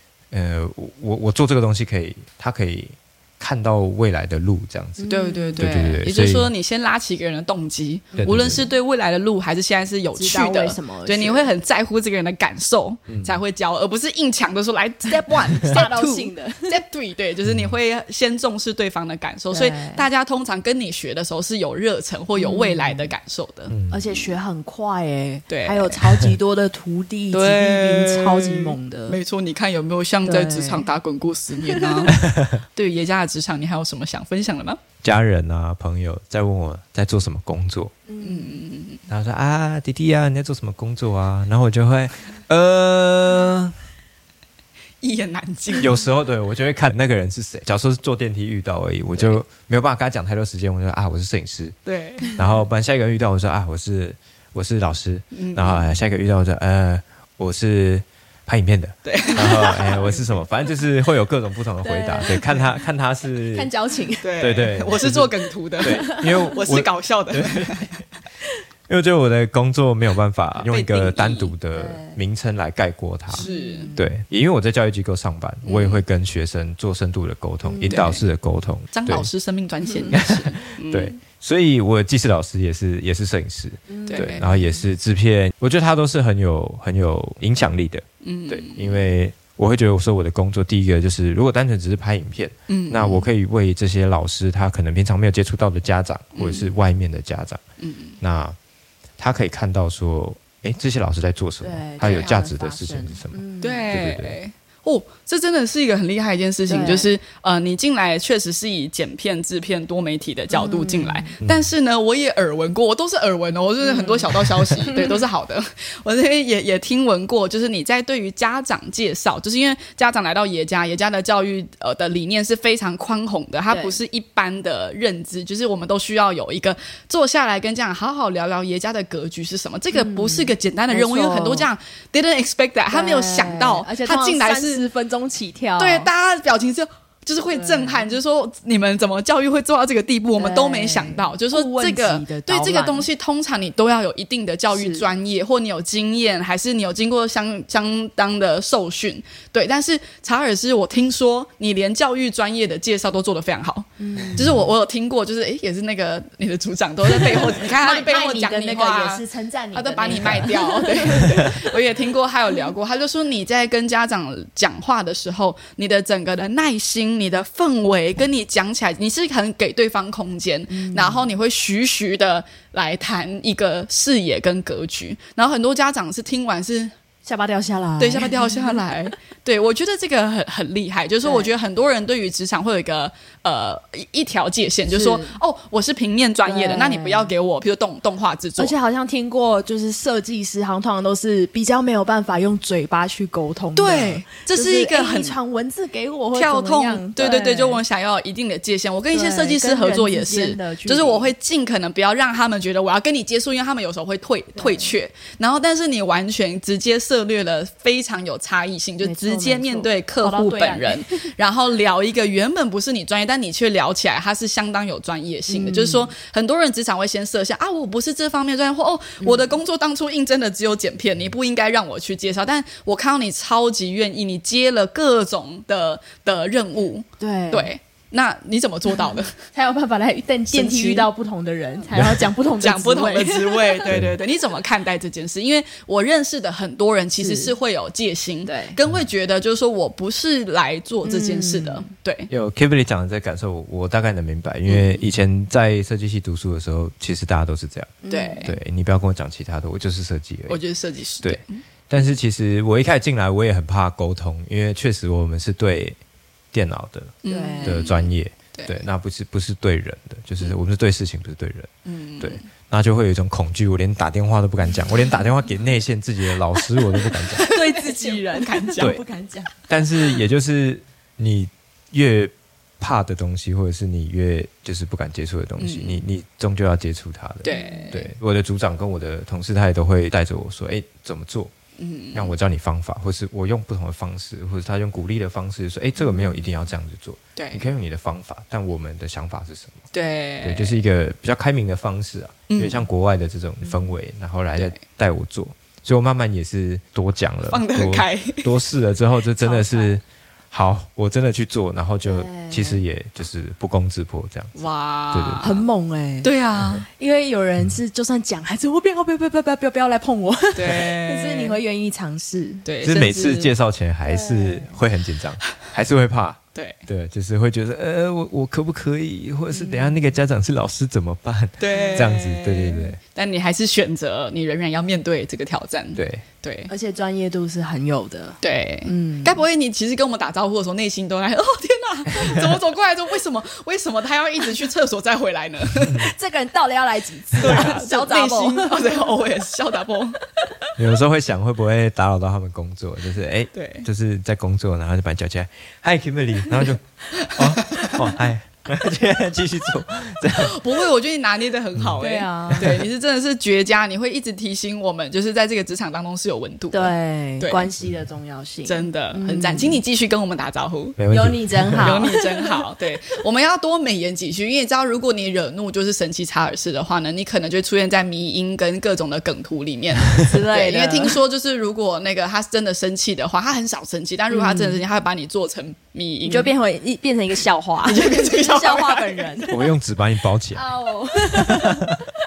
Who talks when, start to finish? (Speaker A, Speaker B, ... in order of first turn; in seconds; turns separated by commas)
Speaker A: 0.3-6.5, Speaker B: 5.0-5.7, Speaker C: 5.1-24.3, Speaker A: 8.2-8.7, Speaker B: 10.2-11.5, Speaker B: 15.3-16.8, Speaker A: 17.4-17.7, Speaker B: 19.5-20.1, Speaker B: 22.4-23.1, Speaker A: 23.7-24.1, Speaker B: 23.9-29.2, Speaker C: 25.5-26.3, Speaker C: 27.3-34.8, Speaker B: 30.2-30.9, Speaker B: 31.7-32.1, Speaker A: 32.1-32.5, Speaker A: 35.0-37.9, Speaker B: 38.1-38.6, Speaker C: 38.2-39.0, Speaker A: 39.1-43.8, Speaker C: 45.0-46.0, Speaker A: 45.8-51.8, Speaker C: 51.9-52.4, Speaker A: 52.3-63.7, Speaker C: 55.3-56.0, Speaker C: 59.0-60.2, Speaker B: 61.8-62.4, Speaker B: 63.5-64.3, Speaker C: 64.2-67.9, Speaker A: 64.4-67.8, Speaker B: 65.8-66.5, Speaker A: 68.9-79.3, Speaker C: 70.6-71.5, Speaker B: 71.7-72.2, Speaker C: 73.3-73.9, Speaker B: 73.3-74.1, Speaker C: 75.6-76.0, Speaker B: 77.7-78.0, Speaker C: 77.8-78.3, Speaker C: 78.9-81.2, Speaker A: 80.1-97.6, Speaker B: 83.9-84.8, Speaker C: 84.1-84.5, Speaker C: 88.2-89.1, Speaker C: 92.7-93.3, Speaker C: 96.3-96.7, Speaker C: 97.8-98.1, Speaker A: 98.2-98.6, Speaker A: 99.2-103.4, Speaker B: 101.6-104.0, Speaker C: 102.0-102.3, Speaker C: 103.6-134.9, Speaker A: 103.9-104.4, Speaker B: 106.7-107.1, Speaker B: 110.5-111.3, Speaker A: 111.4-111.7, Speaker B: 113.8-114.3, Speaker B: 114.9-115.2, Speaker B: 123.7-124.0, Speaker B: 129.9-131.7, Speaker B: 132.9-136.1, Speaker C: 135.8-176.9, Speaker B: 137.5-138.1, Speaker B: 140.4-143.1, Speaker B: 144.7-145.1, Speaker B: 154.0-154.6, Speaker B: 157.1-161.7, Speaker B: 170.7-171.3, Speaker B: 177.2-178.8, Speaker C: 178.0-188.8, Speaker B: 181.2-181.5, Speaker B: 184.9-185.4, Speaker B: 186.5-187.3, Speaker B: 188.6-197.8, Speaker C: 193.8-195.4, Speaker C: 196.3-229.3, Speaker B: 199.1-201.3, Speaker B: 204.6-204.9, Speaker B: 209.0-211.3, Speaker B: 215.5-216.1, Speaker B: 219.2-219.6, Speaker B: 227.2-227.7, Speaker B: 229.5-233.9, Speaker C: 230.5-231.1, Speaker A: 231.9-232.2, Speaker C: 232.6-242.3, Speaker B: 237.2-237.6, Speaker B: 238.4-238.8, Speaker B: 241.0-241.9, Speaker A: 242.3-250.6, Speaker C: 244.7-245.0, Speaker B: 248.0-248.5, Speaker C: 248.1-248.6, Speaker C: 250.5-251.6, Speaker A: 251.2-256.0, Speaker A: 256.5-267.4, Speaker C: 257.2-258.8, Speaker B: 257.3-257.8, Speaker C: 261.9-262.4, Speaker C: 267.1-269.0, Speaker B: 267.4-269.5, Speaker A: 269.7-281.5, Speaker C: 275.6-276.0, Speaker C: 277.4-278.1, Speaker B: 277.5-278.0, Speaker C: 281.8-282.3, Speaker A: 282.1-289.9, Speaker B: 286.0-286.4, Speaker C: 287.4-287.6, Speaker C: 289.9-290.8, Speaker A: 290.4-304.6, Speaker C: 292.5-292.9, Speaker C: 297.5-298.5, Speaker B: 299.4-300.0, Speaker B: 302.0-302.8, Speaker C: 304.6-305.6, Speaker A: 305.1-305.5, Speaker B: 305.4-306.3, Speaker C: 306.2-306.9, Speaker B: 306.9-312.6, Speaker C: 310.6-311.6, Speaker C: 312.6-313.5, Speaker A: 312.8-323.0, Speaker B: 314.1-314.8, Speaker B: 319.5-319.9, Speaker C: 321.6-326.7, Speaker B: 321.7-322.1, Speaker A: 326.0-326.2, Speaker B: 326.7-329.4, Speaker C: 328.4-336.1, Speaker B: 335.9-339.1, Speaker C: 337.4-340.2, Speaker A: 340.8-350.6, Speaker C: 343.5-343.9, Speaker C: 347.4-348.0, Speaker C: 350.4-357.7, Speaker B: 352.0-352.7, Speaker A: 352.6-352.9, Speaker B: 356.7-359.8, Speaker C: 358.6-361.0, Speaker A: 361.0-362.0, Speaker B: 361.1-362.6, Speaker C: 361.8-376.5, Speaker B: 370.2-371.2, Speaker B: 374.3-374.8, Speaker B: 376.2-379.7, Speaker C: 377.9-379.4, Speaker A: 379.5-380.6, Speaker B: 380.5-382.1